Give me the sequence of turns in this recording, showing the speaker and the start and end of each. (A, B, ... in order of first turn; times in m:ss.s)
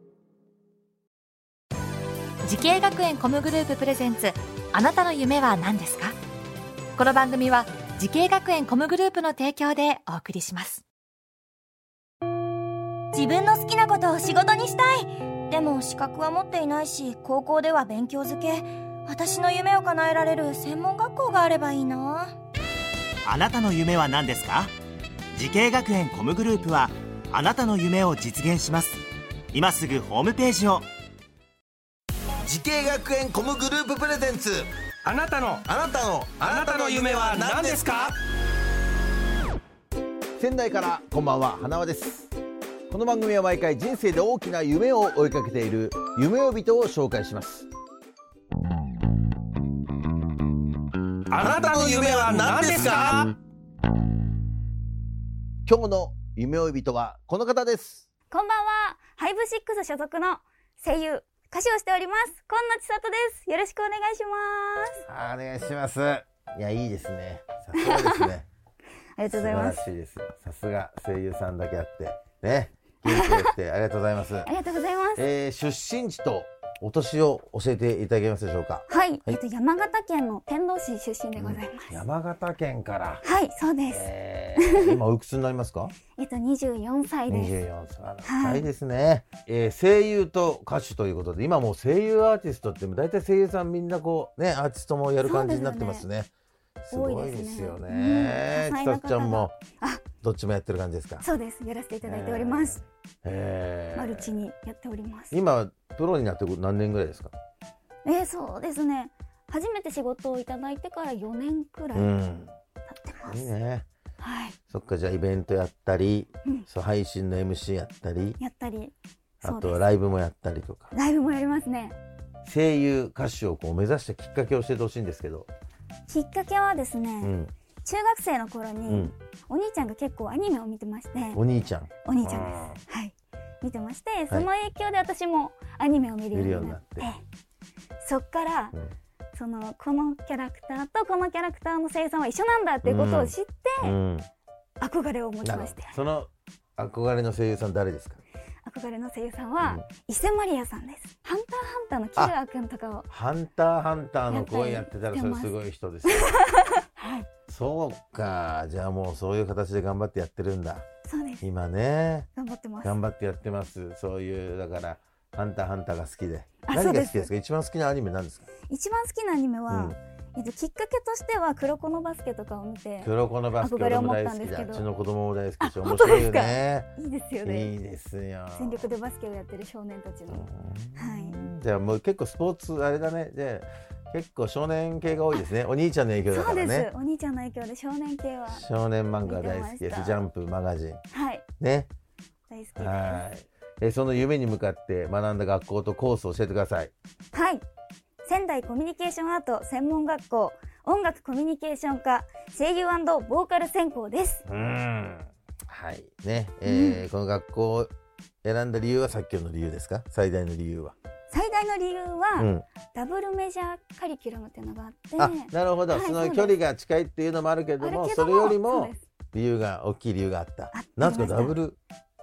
0:02.4-0:06.2 A
0:07.0-0:10.8 A
0:13.1-0:22.4 B
0:23.2-0:24.7 C
0:25.3-0:30.9 C
0:32.4-0:34.7 D
0:35.0-0:35.7 E
0:35.6-0:37.9 D
0:36.4-0:38.2 E
0:40.4-0:42.3 D
0:42.9-0:47.7 D
0:51.3-0:53.3 E
0:51.4-0:53.3 D
0:55.6-0:58.0 D
0:58.3-1:05.0 F
1:05.0-1:08.5 D
1:07.8-1:08.3 F
1:09.2-1:09.8 F
1:09.3-1:14.5 D
1:13.1-1:13.5 F
1:14.4-1:15.2 F
1:15.2-1:19.4 D
1:18.9-1:22.0 F
1:21.4-1:23.2 D
1:23.2-1:25.0 F
1:23.9-1:25.9 D
1:26.2-1:27.5 F
1:27.3-1:36.3 D
1:28.2-1:28.7 F
1:35.2-1:36.0 F
1:36.8-1:39.5 D
1:36.9-1:40.0 F
1:40.2-1:41.2 D
1:41.2-1:42.8 F
1:42.0-1:44.4 D
1:43.9-1:45.3 F
1:45.3-1:47.3 D
1:48.0-1:52.1 F
1:51.9-1:52.5 D
1:52.9-1:53.5 F
1:53.2-1:53.9 D
1:54.2-1:54.6 F
1:54.7-1:58.4 D
1:58.4-1:59.8 F
1:59.4-2:00.9 D
2:00.9-2:02.0 F
2:02.4-2:05.5 D
2:06.1-2:11.4 F
2:07.2-2:07.5 D
2:08.9-2:09.1 D
2:11.3-2:12.8 D
2:12.0-2:17.2 F
2:16.3-2:17.1 D
2:18.0-2:18.7 F
2:19.3-2:23.9 F
2:22.8-2:24.3 D
2:24.8-2:26.0 F
2:25.4-2:28.2 D
2:28.6-2:33.1 F
2:33.1-2:36.4 D
2:34.3-2:35.6 F
2:36.1-2:37.3 F
2:37.5-2:40.8 D
2:41.0-2:41.4 F
2:41.4-2:42.3 D
2:42.3-2:43.0 F
2:42.8-2:48.5 D
2:46.6-2:47.3 F
2:48.7-2:54.9 F
2:49.7-2:50.0 D
2:53.0-2:56.9 D
2:55.6-2:57.7 F
2:57.4-2:58.9 D
2:58.5-3:01.4 F
3:00.3-3:06.9 D
3:06.3-3:08.6 F
3:08.5-3:11.0 D
3:09.2-3:10.2 F
3:11.1-3:11.4 F
3:11.6-3:11.9 D
3:12.5-3:13.2 F
3:12.8-3:16.9 D
3:17.3-3:17.6 F
3:18.2-3:24.4 F
3:24.5-3:27.9 D
3:26.6-3:27.0 F
3:28.4-3:30.9 D
3:31.3-3:36.5 F
3:32.4-3:32.6 D
3:35.2-3:41.8 D
3:37.8-3:39.0 F
3:40.7-3:41.5 F